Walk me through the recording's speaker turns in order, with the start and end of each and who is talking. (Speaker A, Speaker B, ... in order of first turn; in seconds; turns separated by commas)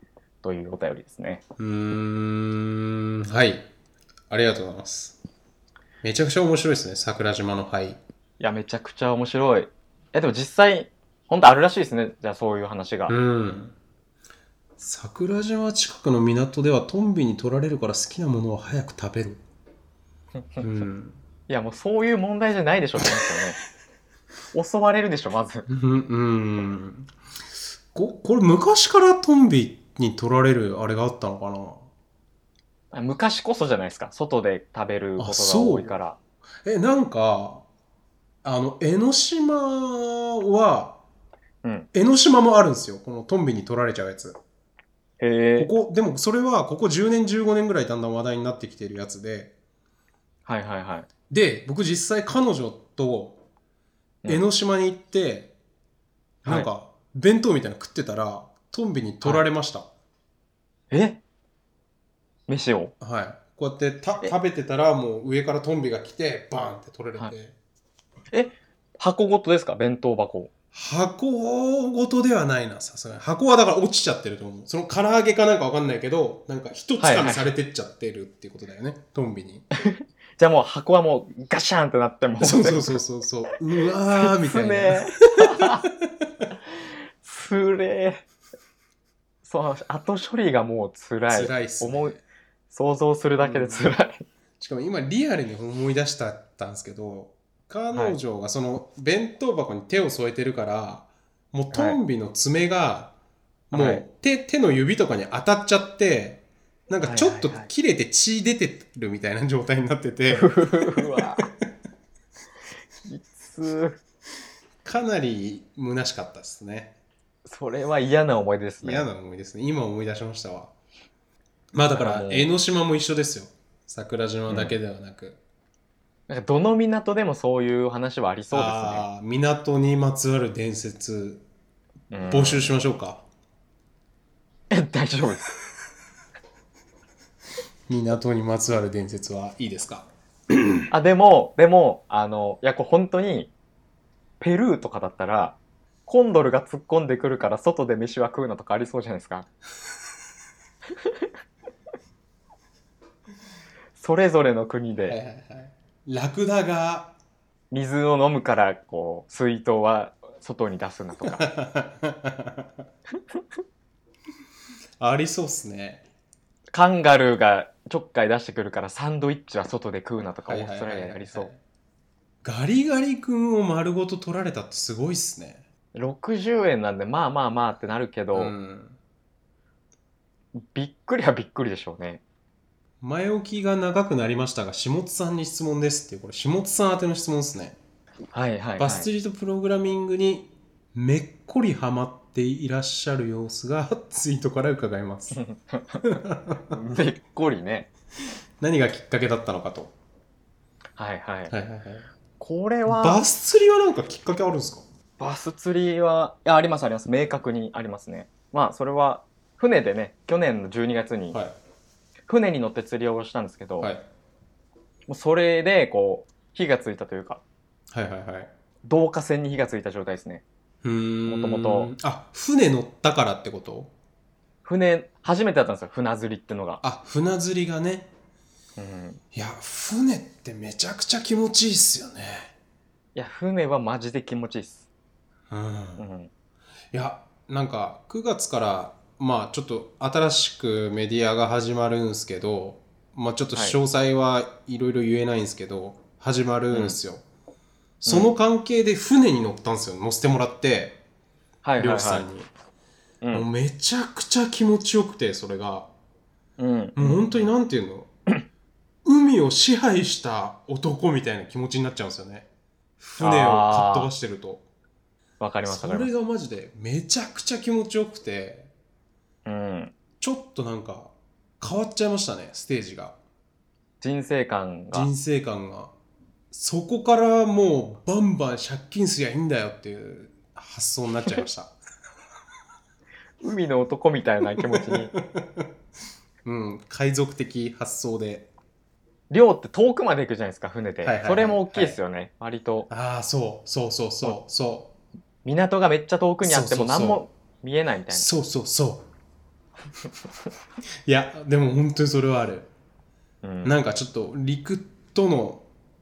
Speaker A: 0.4-1.4, Speaker B: 1.6-3.7, Speaker B: 4.3-5.2, Speaker B: 6.0-8.0, Speaker A: 8.4-13.1, Speaker B: 13.1-13.7, Speaker B: 14.8-19.4, Speaker B: 20.6-21.2, Speaker A: 21.5-23.6, Speaker B: 23.0-23.4, Speaker A: 24.5-25.7, Speaker B: 25.7-27.1, Speaker B: 27.9-31.9, Speaker A: 32.9-36.2, Speaker B: 35.2-35.9, Speaker B: 36.6-37.6, Speaker B: 38.4-41.0, Speaker B: 41.9-44.4, Speaker A: 45.2-45.7, Speaker B: 45.6-49.5, Speaker A: 50.5-51.1, Speaker B: 51.3-53.4, Speaker B: 54.3-55.5, Speaker B: 56.4-59.9, Speaker A: 60.9-61.2, Speaker A: 62.5-62.9, Speaker B: 63.0-67.5, Speaker A: 68.3-70.5, Speaker B: 70.7-79.6, Speaker A: 77.0-77.5, Speaker A: 79.8-83.0, Speaker B: 82.4-86.5, Speaker A: 84.2-85.8, Speaker A: 86.8-88.2, Speaker A: 89.4-92.2, Speaker B: 91.3-92.2, Speaker A: 92.7-94.2, Speaker B: 93.4-93.9, Speaker B: 94.6-103.1, Speaker A: 97.9-98.2, Speaker A: 101.7-102.0, Speaker B: 103.7-111.5, Speaker A: 103.7-104.0, Speaker A: 107.0-107.7, Speaker A: 110.3-111.5, Speaker A: 113.0-114.0, Speaker B: 114.8-117.0, Speaker A: 117.5-119.1, Speaker B: 118.8-120.7, Speaker B: 121.7-125.4, Speaker A: 121.9-122.5, Speaker A: 124.5-124.8, Speaker A: 126.3-129.1, Speaker B: 128.5-131.4, Speaker A: 132.1-132.7, Speaker B: 132.3-133.2, Speaker A: 134.7-135.5, Speaker B: 137.9-140.8, Speaker A: 140.9-143.5, Speaker A: 144.4-149.5, Speaker A: 151.0-151.3, Speaker A: 154.0-155.2, Speaker B: 155.1-157.2, Speaker A: 157.7-161.4, Speaker B: 161.2-162.8, Speaker B: 165.0-166.0, Speaker A: 166.7-171.5, Speaker B: 170.5-171.6, Speaker B: 172.4-175.6, Speaker A: 175.9-178.5, Speaker B: 178.3-179.0, Speaker A: 180.5-182.2, Speaker B: 183.0-187.8, Speaker A: 188.3-189.1, Speaker B: 188.8-195.4, Speaker A: 195.3-196.0, Speaker B: 196.0-196.8, Speaker A: 196.7-197.9, Speaker B: 198.6-199.9, Speaker A: 201.0-201.5, Speaker B: 201.5-202.1, Speaker A: 202.4-203.2, Speaker B: 202.9-204.8, Speaker A: 205.2-211.4, Speaker A: 212.3-213.9, Speaker A: 215.1-217.4, Speaker B: 217.9-218.5, Speaker A: 218.8-220.4, Speaker B: 220.8-223.9, Speaker A: 221.3-221.9, Speaker A: 224.6-226.8, Speaker B: 226.8-228.1, Speaker A: 228.8-229.2, Speaker B: 229.3-232.5, Speaker A: 233.1-234.9, Speaker B: 235.5-236.0, Speaker A: 236.0-236.3, Speaker B: 236.9-247.2, Speaker A: 246.7-247.0, Speaker B: 248.0-251.0, Speaker A: 248.1-248.3, Speaker A: 251.6-252.3, Speaker B: 251.8-252.5, Speaker B: 253.3-255.9, Speaker A: 256.6-257.5, Speaker B: 256.9-258.1, Speaker B: 259.0-262.5, Speaker B: 263.0-264.6, Speaker A: 263.2-264.1, Speaker A: 265.4-266.1, Speaker B: 265.7-268.7, Speaker A: 269.4-269.9, Speaker B: 270.2-273.2, Speaker A: 274.0-275.1, Speaker B: 274.9-275.9, Speaker B: 276.5-281.7, Speaker A: 283.4-285.1, Speaker B: 284.6-285.7, Speaker B: 286.4-288.5, Speaker A: 289.3-292.9, Speaker B: 291.0-292.0, Speaker B: 292.9-294.9, Speaker A: 295.4-298.3, Speaker B: 296.4-297.2, Speaker B: 298.1-299.1, Speaker B: 301.0-302.7, Speaker A: 303.4-303.8, Speaker B: 303.6-305.6